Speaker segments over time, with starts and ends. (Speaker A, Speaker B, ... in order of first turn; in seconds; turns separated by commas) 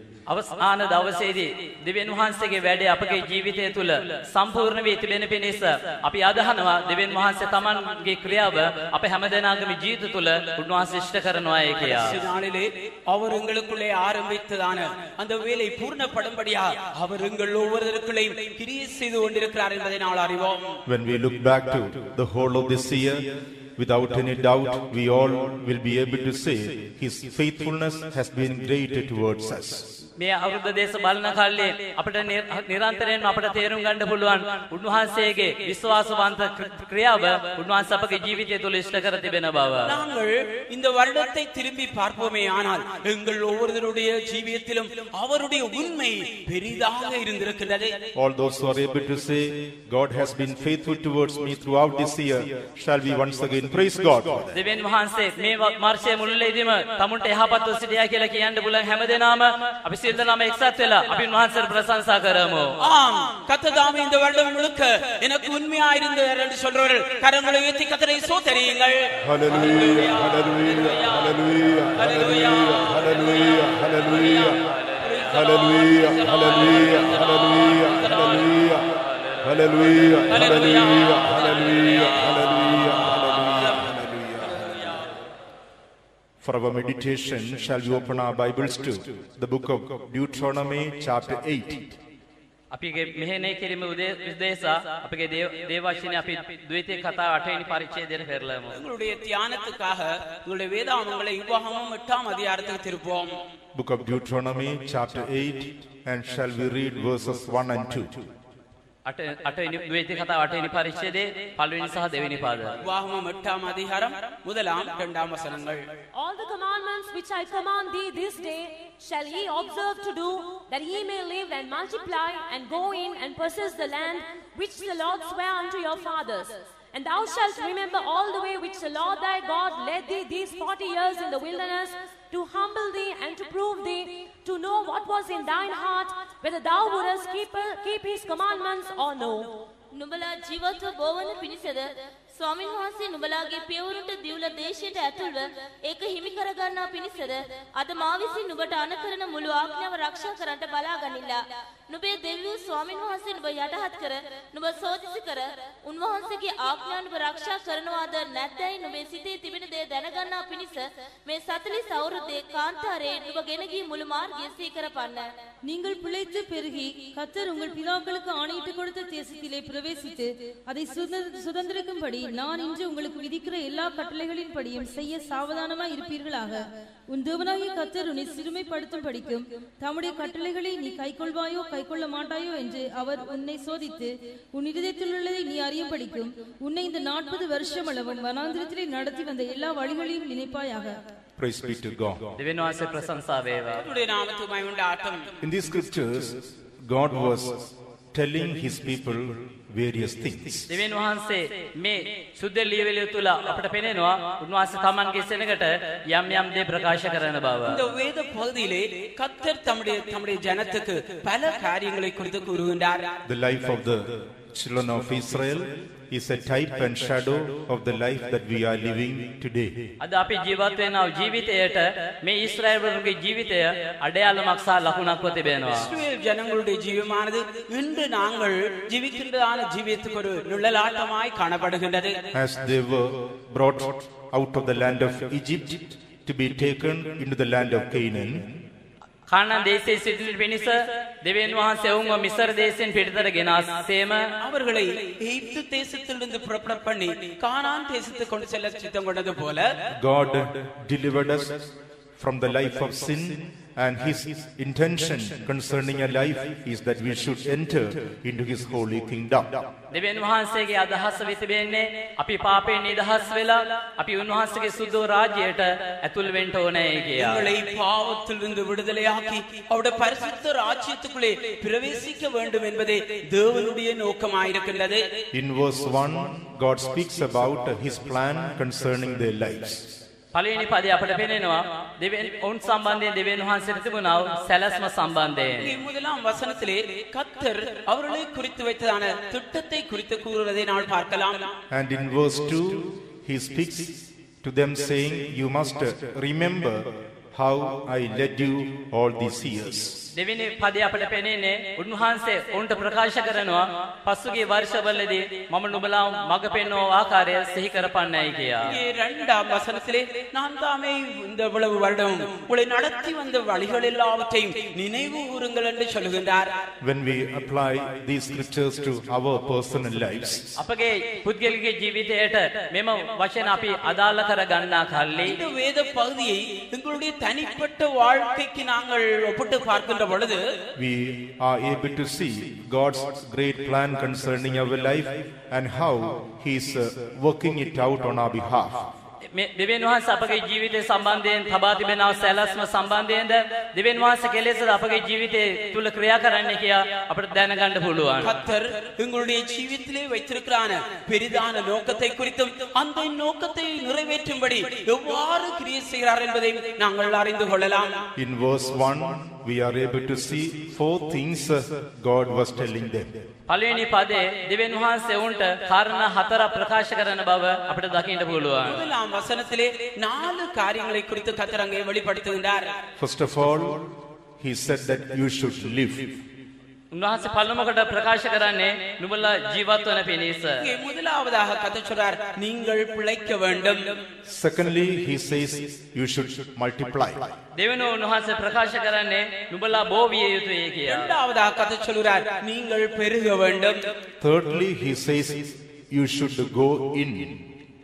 Speaker A: 0.3-12.2, Speaker B: 11.8-20.8, Speaker C: 20.9-29.9, Speaker A: 30.2-39.9, Speaker B: 39.9-48.0, Speaker C: 48.1-54.6, Speaker A: 54.5-62.7, Speaker B: 62.8-71.3, Speaker C: 69.2-74.6, Speaker B: 72.0-78.0, Speaker A: 74.5-75.4, Speaker C: 75.3-84.7, Speaker A: 76.4-79.5, Speaker A: 80.3-83.4, Speaker C: 86.4-92.0, Speaker A: 92.7-98.8, Speaker B: 98.7-103.4, Speaker C: 103.7-108.3, Speaker A: 109.1-112.8, Speaker B: 112.8-115.8, Speaker D: 116.2-139.6, Speaker E: 139.9-165.3, Speaker F: 165.6-191.0, Speaker C: 191.4-192.4, Speaker A: 192.4-193.8, Speaker B: 193.8-195.3, Speaker C: 195.4-200.7, Speaker A: 200.7-207.8, Speaker B: 207.7-213.1, Speaker C: 213.2-219.9, Speaker A: 220.0-225.9, Speaker B: 225.7-232.2, Speaker C: 232.3-238.6, Speaker A: 239.3-244.3, Speaker B: 244.4-249.7, Speaker C: 249.9-259.7, Speaker A: 259.9-267.5, Speaker B: 267.2-275.1, Speaker C: 275.3-279.9, Speaker A: 280.3-285.7, Speaker B: 285.6-291.5, Speaker C: 291.7-300.1, Speaker A: 300.1-308.7, Speaker B: 308.6-316.6, Speaker C: 316.8-320.6, Speaker A: 320.6-325.4, Speaker B: 325.2-330.4, Speaker C: 330.8-338.9, Speaker A: 339.3-348.3, Speaker B: 348.2-358.0, Speaker C: 358.2-363.2, Speaker A: 363.5-368.8, Speaker B: 368.6-372.8, Speaker C: 373.0-376.2, Speaker A: 376.9-380.6, Speaker B: 380.6-384.0, Speaker C: 384.3-387.4, Speaker A: 387.6-391.1, Speaker B: 390.9-393.9, Speaker C: 394.2-397.4